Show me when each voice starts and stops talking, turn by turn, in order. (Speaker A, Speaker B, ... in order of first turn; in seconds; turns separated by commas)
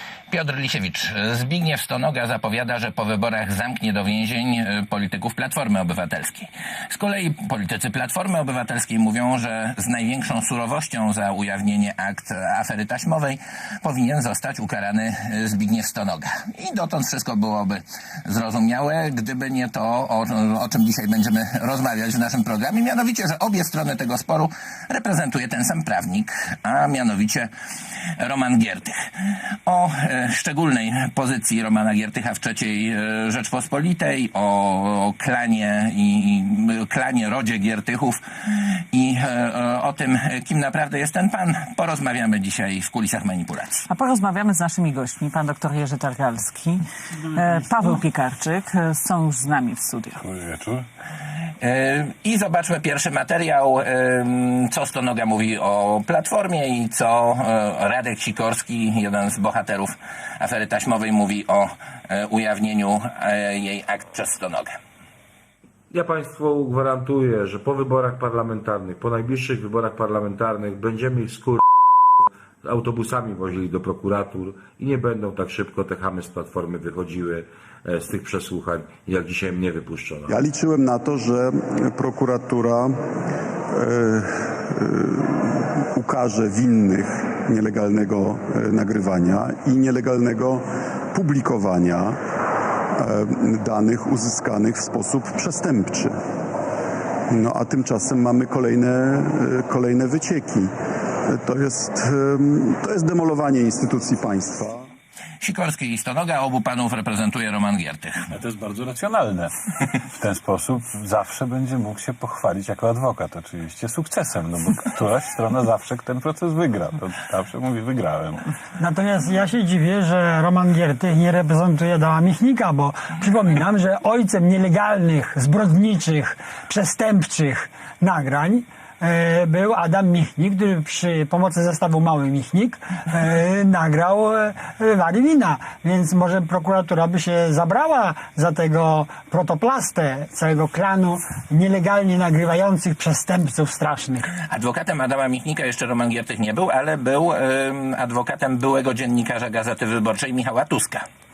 Speaker A: 0.3-27.5, Speaker A: 28.2-29.0, Speaker A: 29.7-38.2, Speaker A: 38.9-43.9, Speaker B: 43.9-50.2, Speaker C: 50.2-50.9, Speaker A: 51.6-64.8, Speaker D: 65.9-71.6, Speaker D: 72.6-80.3, Speaker E: 80.3-82.9, Speaker E: 83.8-90.6, Speaker E: 91.2-92.2, Speaker E: 93.0-96.1, Speaker E: 97.3-100.7, Speaker E: 101.3-104.8, Speaker A: 105.4-108.2, Speaker C: 108.3-109.5, Speaker C: 110.1-118.5, Speaker F: 118.8-144.3, Speaker A: 144.5-151.1